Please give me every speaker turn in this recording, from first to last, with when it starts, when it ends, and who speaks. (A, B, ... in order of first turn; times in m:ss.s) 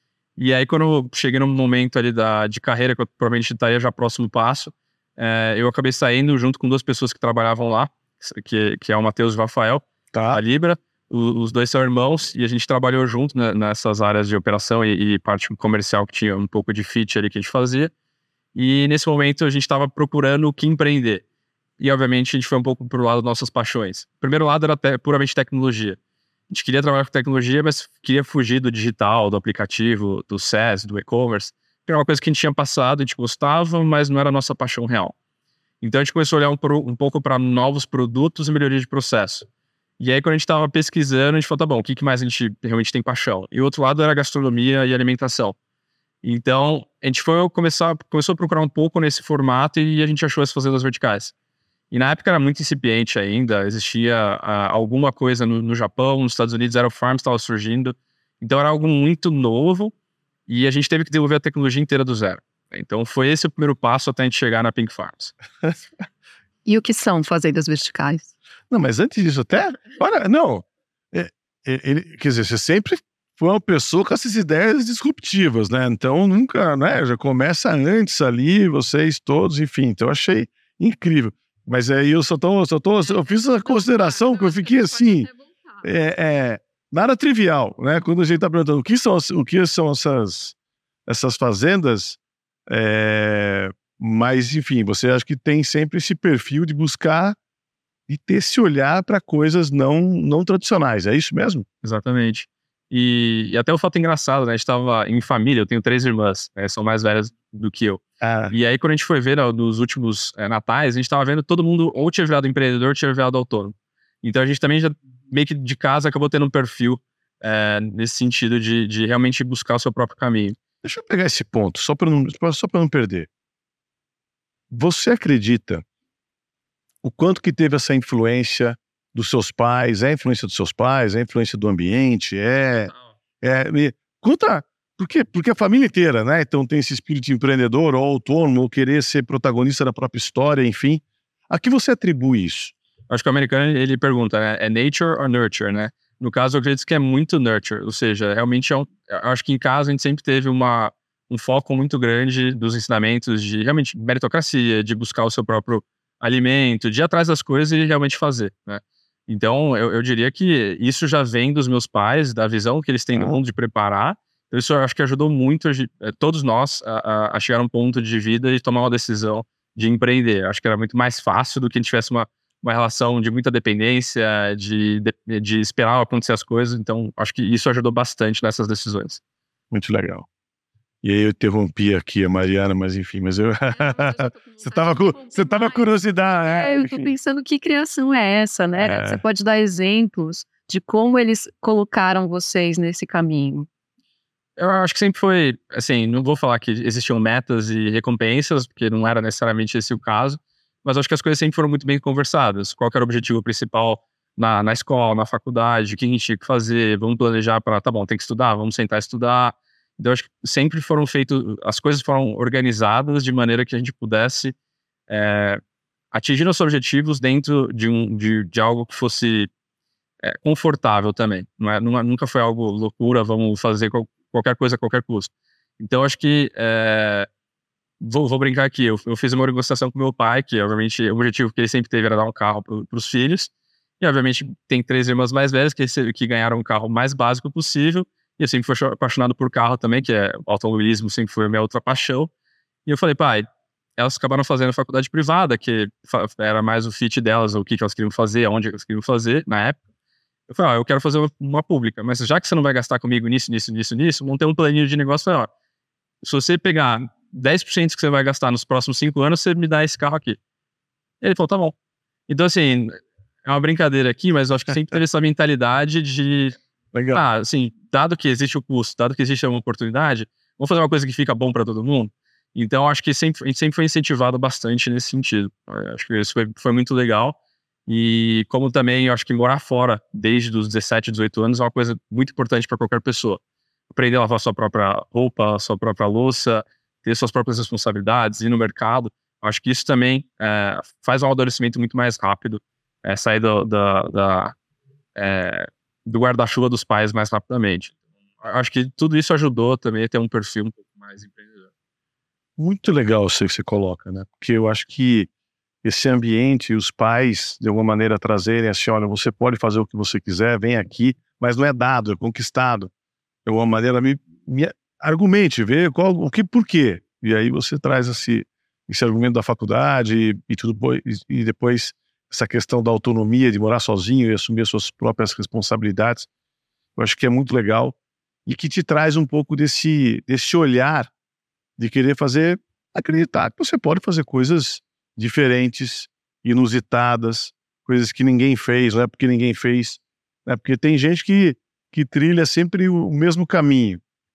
0:00.4-0:17.9 A
0:10.1-0:10.4 B
0:18.5-0:21.2 A
0:21.8-0:26.0 A
0:26.5-0:35.1 A
0:35.8-0:39.5 A
0:40.0-0:45.6 A
0:46.2-0:51.3 A
0:51.9-0:59.9 A
1:00.5-1:05.3 A
1:06.6-1:08.3 C
1:08.7-1:25.3 B
1:25.8-1:30.5 B
1:31.1-1:37.4 B
1:38.1-1:41.6 B
1:41.8-2:00.6 A
1:48.2-1:48.5 B
2:00.8-2:03.3 B
2:04.7-2:05.8 B
2:07.0-2:22.7 B
2:23.1-2:59.2 A
2:59.7-3:00.3 B
3:01.0-3:07.1 B
3:03.9-3:05.7 C
3:06.5-3:13.7 C
3:08.8-3:09.2 B
3:14.6-3:34.5 A
3:35.1-3:35.6 A
3:36.1-3:39.5 A
3:40.2-3:47.3 A
3:48.0-4:02.3 A
4:02.8-4:09.8 A
4:10.5-4:15.5 A
4:16.2-4:20.4 A
4:21.2-4:21.7 A
4:22.3-4:26.6 A
4:26.9-4:27.2 B
4:27.1-4:43.4 A
4:43.9-4:54.6 A
4:55.2-5:01.7 A
5:02.6-5:05.3 B
5:05.8-5:12.9 B
5:13.4-5:26.3 B
5:27.0-5:31.1 B
5:31.8-5:44.0 B